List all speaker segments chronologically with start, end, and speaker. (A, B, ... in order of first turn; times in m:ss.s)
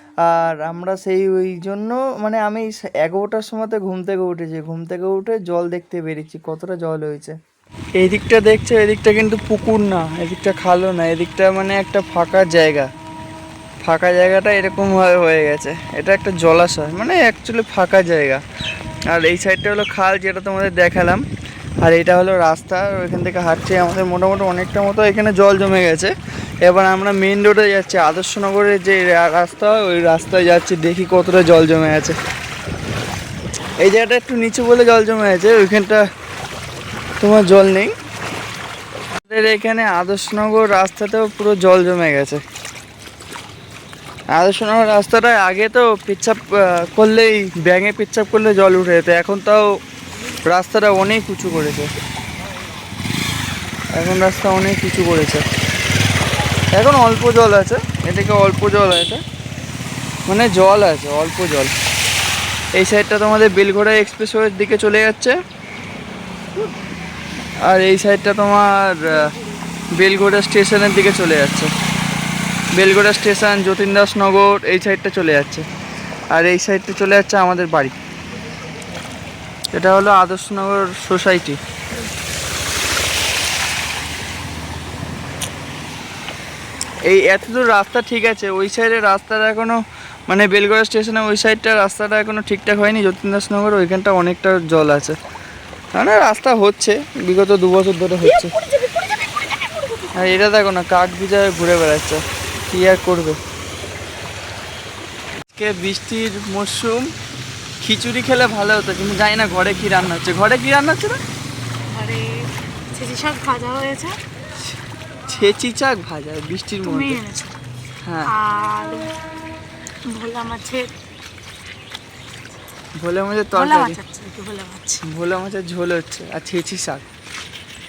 0:00.3-0:07.4 A
0:08.0-0:12.9 A
0:13.8-0:18.4 A
0:19.1-0:21.2 A
0:21.8-0:26.1 A
0:26.6-0:32.2 A
0:33.8-0:36.0 A
0:37.2-0:37.9 A
0:39.3-0:42.4 A
0:44.3-0:49.7 A
0:50.5-0:51.9 A
0:54.0-0:55.4 A
0:56.7-0:59.2 A
1:00.3-1:01.7 A
1:02.8-1:05.4 A
1:07.6-1:09.3 A
1:10.0-1:11.7 A
1:12.8-1:15.7 A
1:16.3-1:18.0 A
1:19.7-1:21.6 A
1:27.1-1:29.8 A
1:30.3-1:35.2 A
1:36.0-1:38.6 A
1:38.8-1:40.1 B
1:40.1-1:43.4 A
1:45.5-1:47.1 A
1:47.8-1:51.2 A
1:51.9-1:54.2 B
1:55.3-1:57.2 A
1:56.8-1:57.6 B
1:58.0-1:58.3 A
1:58.3-1:59.1 B
2:00.1-2:00.9 B
2:03.0-2:04.0 A
2:03.6-2:05.0 B
2:05.1-2:07.0 A